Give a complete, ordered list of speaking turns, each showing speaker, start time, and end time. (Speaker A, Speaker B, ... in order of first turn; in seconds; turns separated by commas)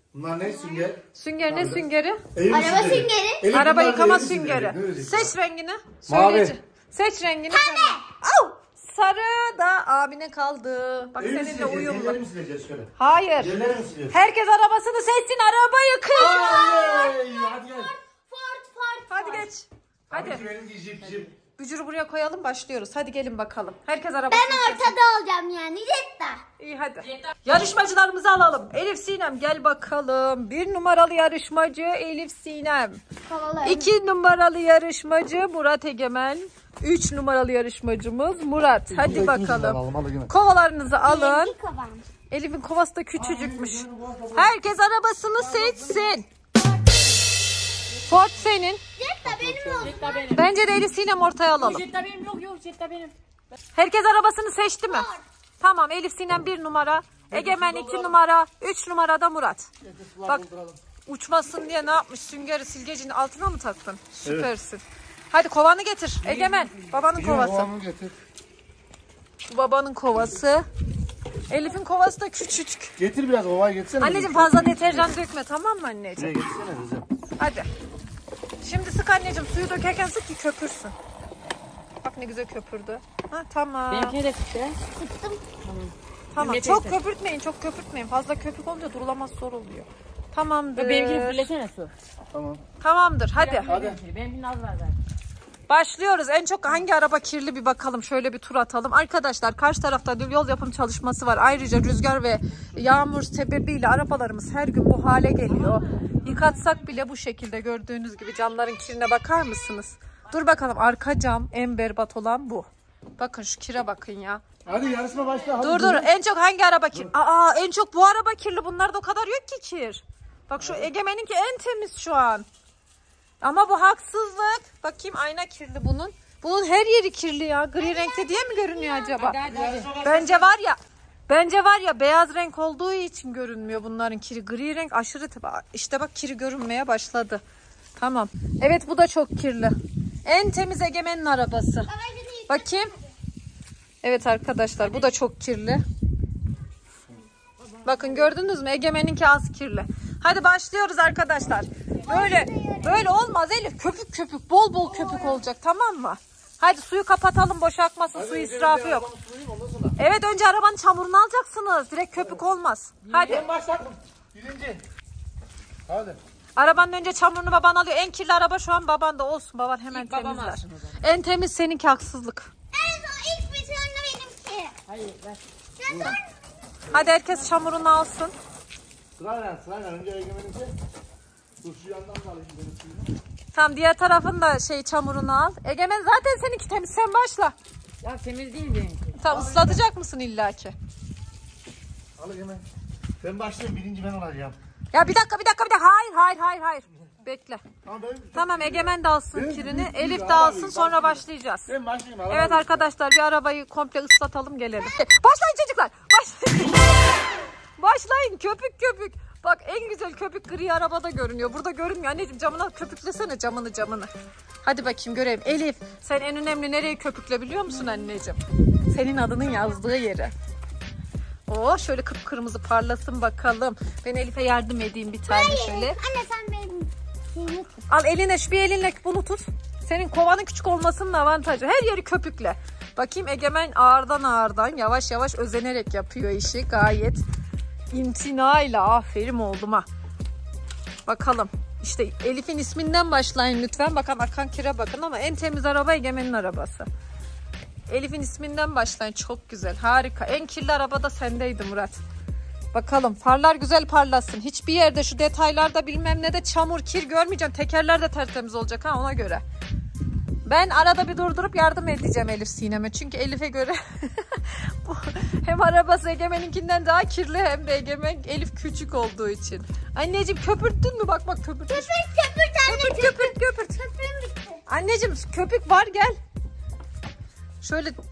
Speaker A: 0.1-1.8, Speaker B: 1.1-2.2, Speaker A: 2.3-5.3, Speaker C: 2.5-3.5, Speaker B: 3.5-12.2, Speaker A: 6.1-6.5, Speaker C: 7.5-8.0, Speaker A: 11.2-14.1, Speaker B: 13.0-13.6, Speaker B: 14.1-16.5, Speaker C: 16.1-19.5, Speaker A: 16.2-17.9, Speaker B: 19.1-20.4, Speaker A: 20.1-21.3, Speaker B: 21.6-24.9, Speaker C: 24.3-26.4, Speaker B: 26.6-33.0, Speaker C: 33.2-33.9, Speaker B: 33.6-41.5, Speaker A: 38.9-40.3, Speaker C: 41.0-42.1, Speaker B: 42.3-46.3, Speaker A: 43.2-44.5, Speaker B: 48.0-48.8, Speaker C: 49.0-50.3, Speaker A: 49.2-50.0, Speaker D: 49.8-50.5, Speaker B: 50.3-51.8, Speaker D: 51.6-53.1, Speaker B: 53.7-59.7, Speaker C: 54.9-55.2, Speaker A: 57.3-58.1, Speaker A: 59.8-60.8, Speaker B: 61.0-67.7, Speaker A: 66.2-68.1, Speaker B: 69.4-70.7, Speaker B: 71.5-73.0, Speaker A: 73.0-75.1, Speaker B: 74.0-76.4, Speaker A: 76.2-77.1, Speaker B: 77.4-77.7, Speaker B: 78.6-80.9, Speaker B: 82.0-84.2, Speaker D: 83.9-84.8, Speaker C: 85.0-85.5, Speaker D: 85.6-87.0, Speaker B: 86.3-91.5, Speaker D: 90.7-91.9, Speaker A: 92.3-92.6, Speaker B: 92.8-93.7, Speaker D: 93.3-95.0, Speaker A: 93.7-94.0, Speaker B: 95.7-114.4, Speaker A: 114.7-116.1, Speaker D: 114.7-115.6, Speaker B: 115.6-122.5, Speaker B: 123.4-129.4, Speaker C: 127.8-129.3, Speaker D: 129.2-130.2, Speaker A: 129.5-130.3, Speaker B: 130.0-137.4, Speaker B: 138.0-141.9, Speaker C: 141.9-143.1, Speaker B: 142.5-142.9, Speaker B: 144.0-145.8, Speaker B: 147.8-159.1, Speaker C: 152.0-153.1, Speaker A: 158.1-160.0, Speaker B: 160.0-163.4, Speaker D: 163.1-163.4, Speaker A: 163.3-164.8, Speaker A: 165.9-166.2, Speaker B: 166.6-172.5, Speaker D: 169.9-170.9, Speaker C: 172.7-174.7, Speaker D: 174.8-175.4, Speaker C: 175.8-176.4, Speaker A: 175.9-176.2, Speaker B: 176.9-178.3, Speaker A: 179.2-180.7, Speaker A: 181.6-183.1, Speaker B: 183.5-187.5, Speaker D: 188.0-189.2, Speaker B: 189.2-190.7, Speaker A: 189.3-189.7, Speaker A: 192.2-192.6, Speaker A: 193.2-194.6, Speaker B: 194.9-197.6, Speaker A: 197.8-202.8, Speaker B: 198.3-201.7, Speaker B: 202.3-214.1, Speaker B: 214.6-220.3, Speaker B: 221.5-226.0, Speaker C: 225.3-227.8, Speaker B: 227.9-237.2, Speaker B: 237.9-239.9, Speaker B: 241.1-246.9, Speaker B: 247.9-252.0, Speaker B: 252.7-259.4, Speaker B: 260.4-271.9, Speaker C: 271.7-274.6, Speaker B: 272.6-273.7, Speaker B: 274.7-276.2, Speaker B: 277.6-278.0